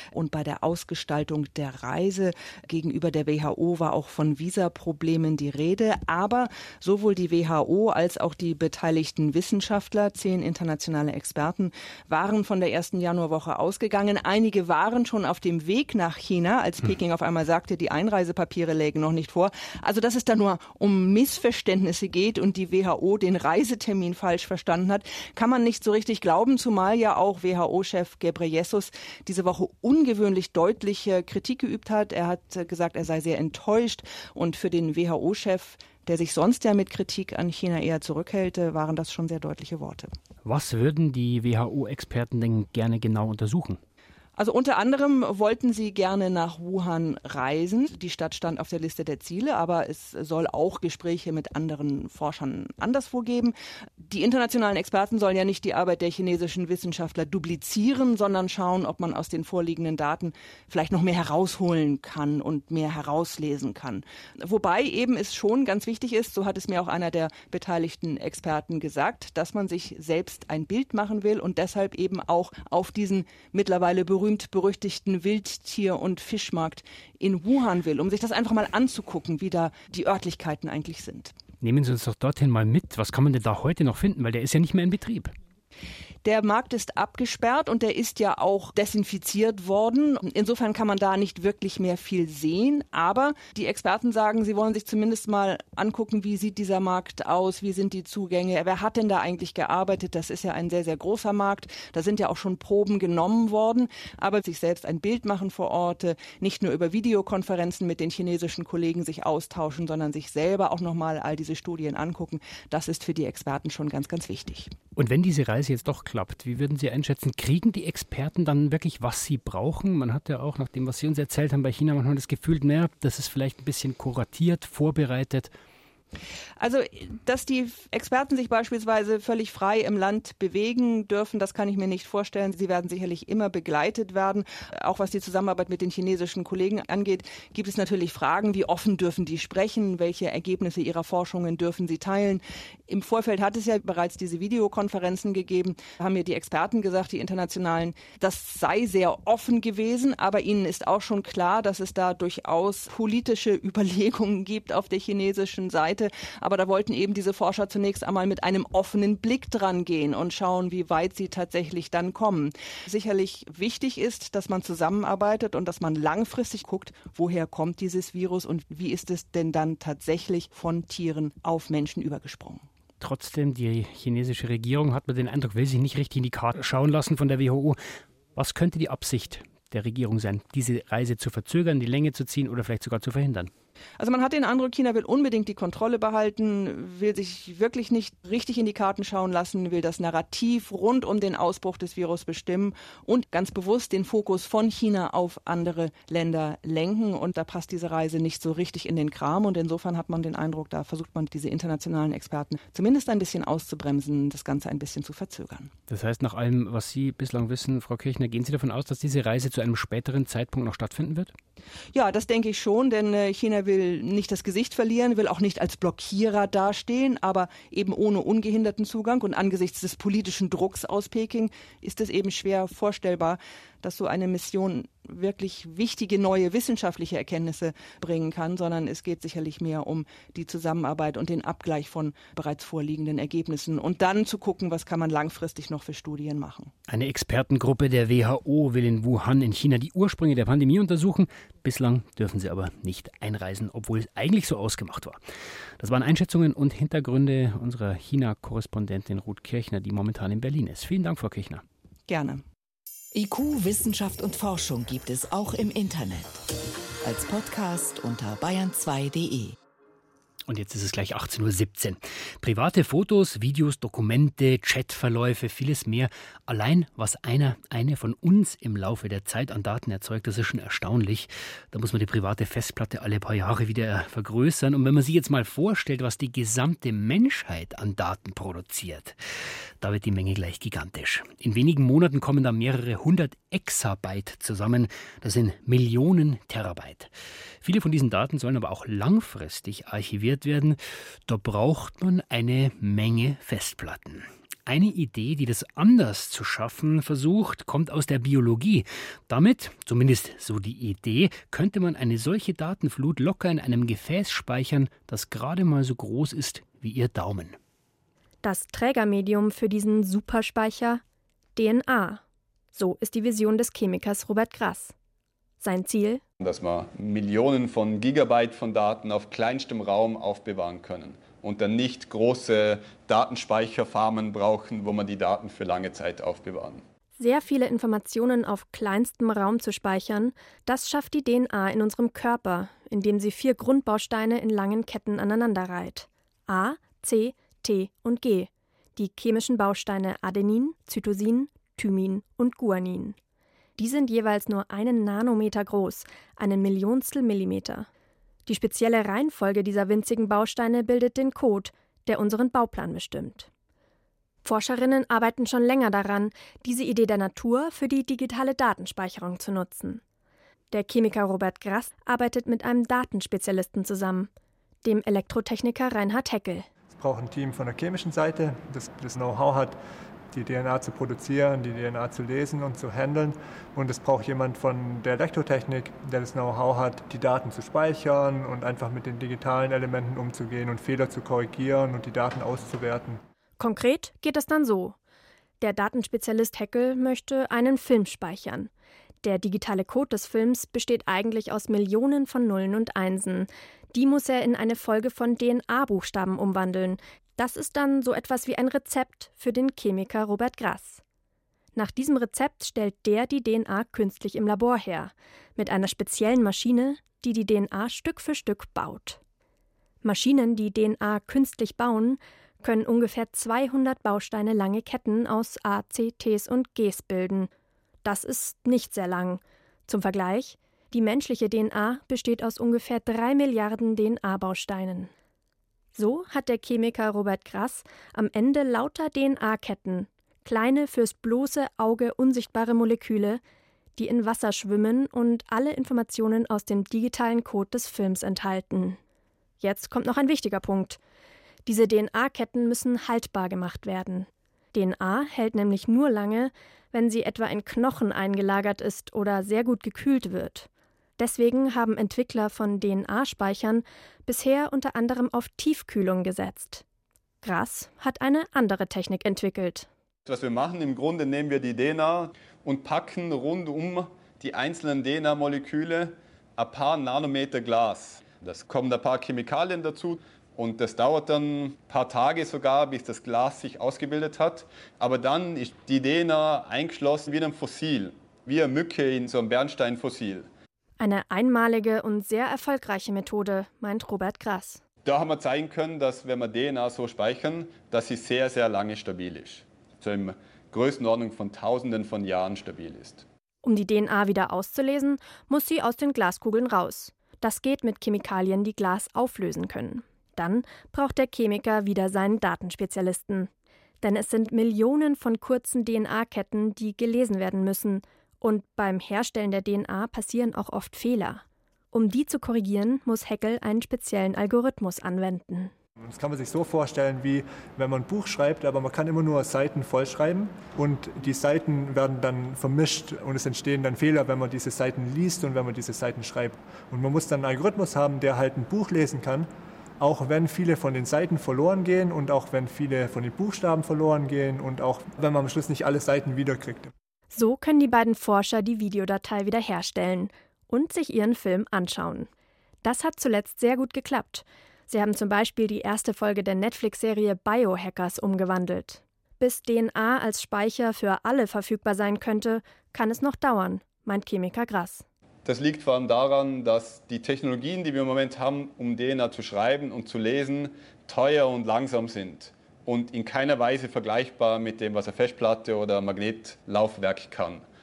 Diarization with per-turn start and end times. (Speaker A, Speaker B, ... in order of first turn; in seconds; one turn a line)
Speaker A: 0.1-6.1
Speaker B: 0.6-40.0
Speaker A: 6.8-7.7
Speaker A: 9.9-10.2
Speaker A: 38.0-39.6
Speaker C: 40.4-43.8
Speaker B: 44.4-81.3
Speaker C: 81.6-85.3
Speaker B: 86.2-114.6
Speaker C: 115.0-125.5
Speaker B: 126.6-172.6
Speaker C: 173.0-177.8
Speaker C: 178.3-183.5
Speaker B: 184.0-205.7
Speaker C: 205.9-211.3
Speaker B: 211.9-236.7
Speaker C: 236.9-245.2
Speaker C: 245.8-251.6
Speaker B: 252.1-252.4
Speaker A: 253.1-256.4
Speaker A: 257.0-259.6
Speaker C: 260.5-279.2
Speaker C: 279.8-307.6
Speaker D: 308.4-311.0
Speaker D: 311.6-312.2
Speaker D: 312.7-314.9
Speaker D: 315.6-316.2
Speaker E: 316.4-326.8
Speaker D: 327.2-343.2
Speaker D: 343.8-347.9
Speaker D: 348.5-353.5
Speaker D: 354.4-360.0
Speaker D: 360.7-364.3
Speaker D: 364.8-366.7
Speaker F: 366.9-369.8
Speaker F: 370.3-383.2
Speaker D: 383.6-385.0
Speaker D: 385.6-388.7
Speaker D: 389.2-401.0
Speaker D: 401.7-409.2
Speaker D: 410.0-417.5
Speaker D: 418.0-425.1
Speaker D: 425.9-433.4
Speaker D: 434.0-439.0
Speaker D: 439.6-441.0
Speaker D: 441.6-456.8
Speaker D: 457.4-459.9
Speaker E: 460.2-480.5
Speaker D: 481.0-484.8
Speaker E: 485.0-493.2
Speaker D: 493.6-503.5
Speaker D: 504.0-515.7
Speaker F: 516.0-529.5
Speaker F: 530.0-536.9
Speaker D: 537.3-542.3
Speaker D: 542.8-555.0
Speaker E: 555.4-567.6